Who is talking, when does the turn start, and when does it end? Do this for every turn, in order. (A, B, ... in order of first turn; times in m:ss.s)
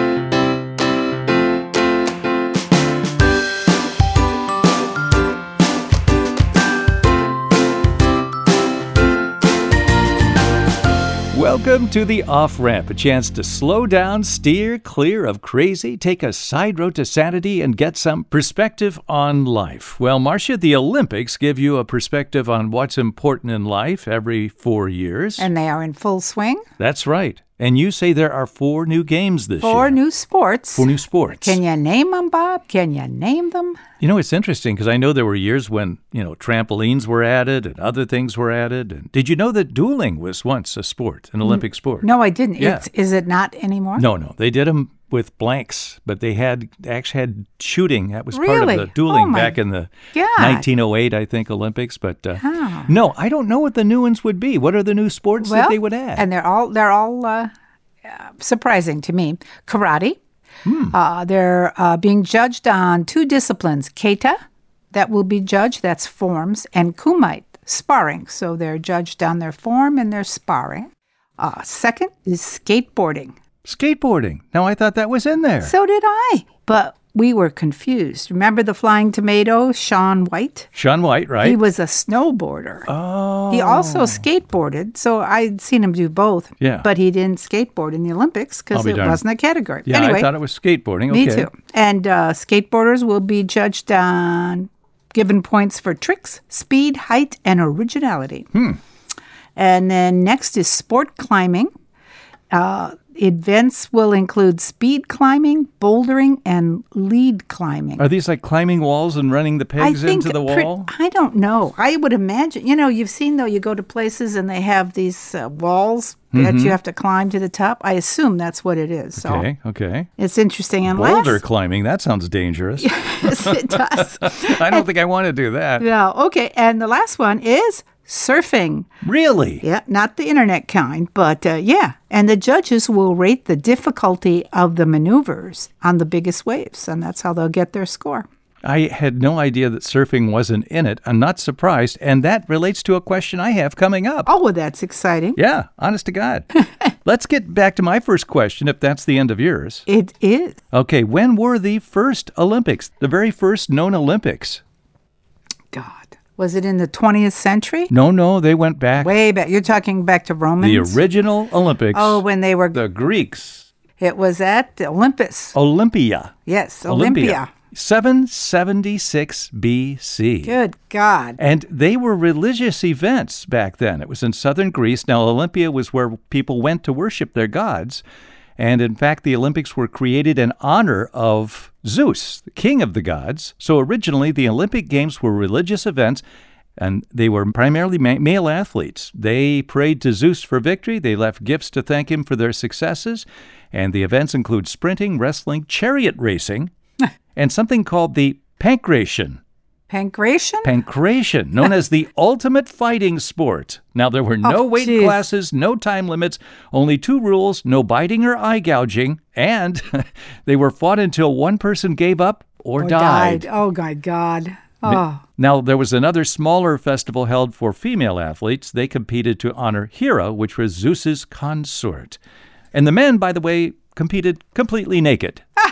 0:11.3-0:25.5 A
0:25.4-0:26.7 B
0:26.8-0:30.0 A
0:29.6-0:33.8 B
0:30.8-0:31.6 A
0:34.0-0:42.1 A
0:41.4-0:44.0 B
0:42.6-0:42.9 A
0:44.0-0:56.2 A
0:48.3-0:49.6 B
0:50.1-0:50.6 B
0:52.4-0:52.9 B
0:55.4-0:57.5 B
0:58.0-1:00.2 B
1:00.6-1:01.0 A
1:00.9-1:04.4 B
1:04.9-1:13.4 B
1:13.6-1:15.7 A
1:15.6-1:20.7 B
1:20.8-1:21.6 A
1:21.4-1:22.9 B
1:22.9-1:24.2 A
1:23.5-1:30.3 B
1:26.6-1:26.9 A
1:28.7-1:29.2 A
1:29.9-1:31.5 A
1:31.1-1:38.5 B
1:38.5-1:38.8 A
1:39.6-1:41.7 B
1:42.5-1:48.0 B
1:48.0-1:50.9 A
1:49.8-1:59.5 B
1:56.3-1:56.8 A
1:59.2-2:00.1 A
2:00.2-2:01.4 B
2:00.9-2:05.8 A
2:02.8-2:04.9 B
2:05.8-2:08.9 B
2:09.0-2:09.6 A
2:09.6-2:18.3 B
2:18.6-2:24.3 A
2:24.3-2:25.4 B
2:25.4-2:26.5 A
2:27.0-2:29.9 A
2:29.9-2:30.6 B
2:30.7-2:34.6 A
2:35.7-2:37.9 B
2:37.9-2:39.1 A
2:39.0-2:41.0 B
2:40.6-2:43.7 A
2:41.9-2:42.8 B
2:44.0-2:45.6 B
2:45.5-2:46.3 A
2:46.5-2:47.5 B
2:46.8-2:50.6 A
2:50.4-2:51.4 B
2:51.4-2:58.0 A
2:58.6-3:06.2 A
3:06.8-3:16.7 A
3:17.4-3:19.4 A
3:19.9-3:20.7 B
3:20.6-3:33.5 A
3:24.4-3:25.2 B
3:32.8-3:35.2 B
3:34.8-3:42.2 A
3:42.7-3:45.4 A